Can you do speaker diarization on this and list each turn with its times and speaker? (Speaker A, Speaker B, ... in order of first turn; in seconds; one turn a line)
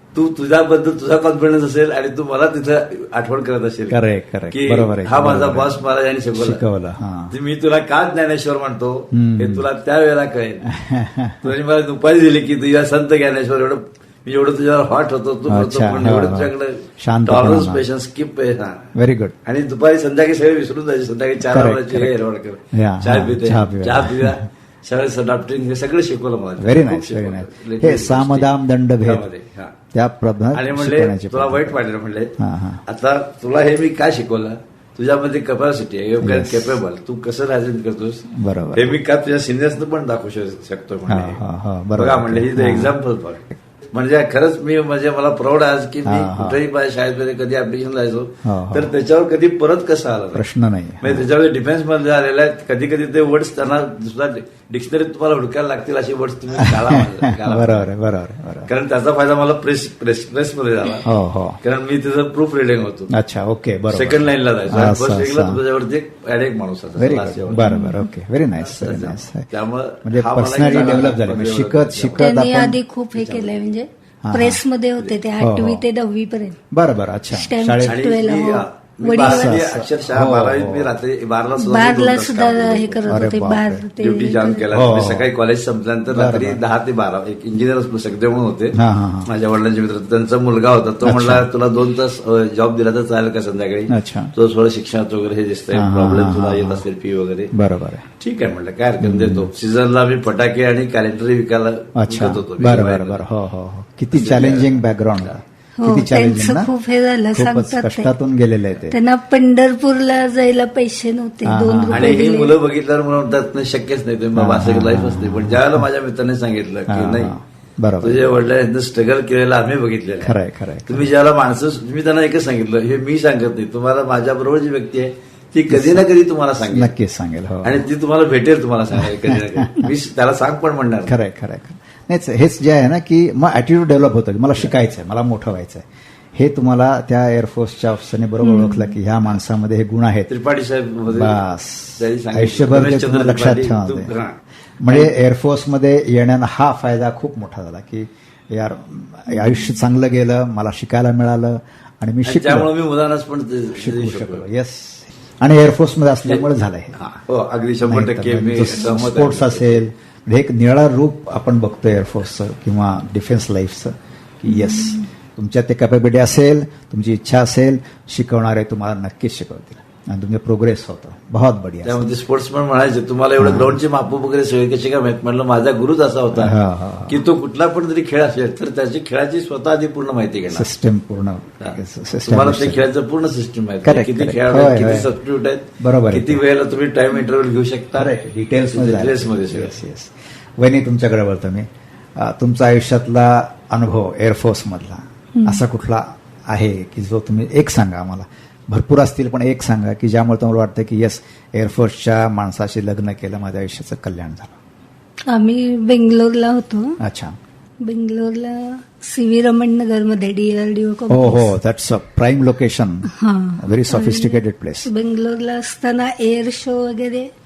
Speaker A: 0.1-4.0
Speaker B: 3.9-5.8
Speaker A: 4.5-6.6
Speaker B: 6.3-7.3
Speaker A: 7.3-10.7
Speaker B: 9.1-9.7
Speaker B: 10.7-11.5
Speaker A: 11.4-18.9
Speaker B: 15.5-17.8
Speaker B: 18.9-19.3
Speaker A: 19.4-28.5
Speaker B: 21.4-22.1
Speaker B: 22.7-24.4
Speaker B: 26.6-29.3
Speaker A: 29.0-29.7
Speaker B: 29.9-31.8
Speaker A: 30.5-32.3
Speaker B: 32.4-32.8
Speaker A: 32.9-41.4
Speaker B: 36.2-36.8
Speaker B: 38.3-39.0
Speaker B: 41.1-43.0
Speaker A: 42.0-50.4
Speaker B: 46.0-46.6
Speaker B: 48.4-48.9
Speaker B: 50.3-51.2
Speaker A: 51.0-57.9
Speaker B: 56.6-58.7
Speaker A: 58.7-61.1
Speaker B: 61.0-61.6
Speaker A: 61.6-63.1
Speaker B: 63.1-65.6
Speaker A: 63.9-67.7
Speaker B: 67.0-69.5
Speaker C: 67.6-68.0
Speaker A: 68.6-72.2
Speaker B: 70.0-72.8
Speaker C: 72.2-76.6
Speaker A: 73.1-73.5
Speaker B: 74.2-74.6
Speaker B: 75.4-75.8
Speaker B: 76.7-78.1
Speaker C: 77.3-79.6
Speaker A: 77.8-83.2
Speaker B: 79.2-80.9
Speaker C: 81.6-84.7
Speaker B: 83.1-83.9
Speaker A: 84.0-97.5
Speaker B: 84.7-85.3
Speaker B: 86.1-86.6
Speaker B: 88.7-89.3
Speaker B: 91.0-91.4
Speaker B: 93.9-94.3
Speaker B: 95.7-96.8
Speaker B: 97.5-98.0
Speaker A: 98.2-103.2
Speaker B: 99.0-99.5
Speaker B: 102.0-106.7
Speaker A: 104.1-105.4
Speaker C: 105.8-108.1
Speaker B: 107.3-108.9
Speaker C: 108.9-112.5
Speaker B: 111.4-112.2
Speaker A: 111.9-117.3
Speaker B: 114.3-115.8
Speaker B: 116.9-118.2
Speaker A: 118.0-120.3
Speaker B: 120.2-121.1
Speaker A: 120.9-126.9
Speaker B: 125.7-126.1
Speaker B: 126.7-127.8
Speaker A: 127.6-131.1
Speaker B: 128.9-129.9
Speaker B: 131.1-140.3
Speaker C: 138.4-138.9
Speaker A: 140.3-141.4
Speaker B: 141.1-144.1
Speaker A: 142.0-145.1
Speaker B: 144.8-152.7
Speaker A: 152.2-154.4
Speaker B: 153.8-157.0
Speaker A: 157.0-159.8
Speaker B: 157.8-172.1
Speaker C: 164.5-165.0
Speaker A: 171.8-176.6
Speaker B: 173.4-173.8
Speaker B: 176.3-177.2
Speaker A: 177.1-180.7
Speaker B: 180.5-182.8
Speaker A: 181.6-188.1
Speaker B: 183.8-185.1
Speaker B: 185.8-186.4
Speaker B: 187.9-204.6
Speaker A: 188.7-189.8
Speaker C: 195.3-195.6
Speaker C: 205.3-207.0
Speaker B: 207.0-207.4
Speaker C: 207.8-211.5
Speaker B: 211.1-214.9
Speaker C: 213.1-217.3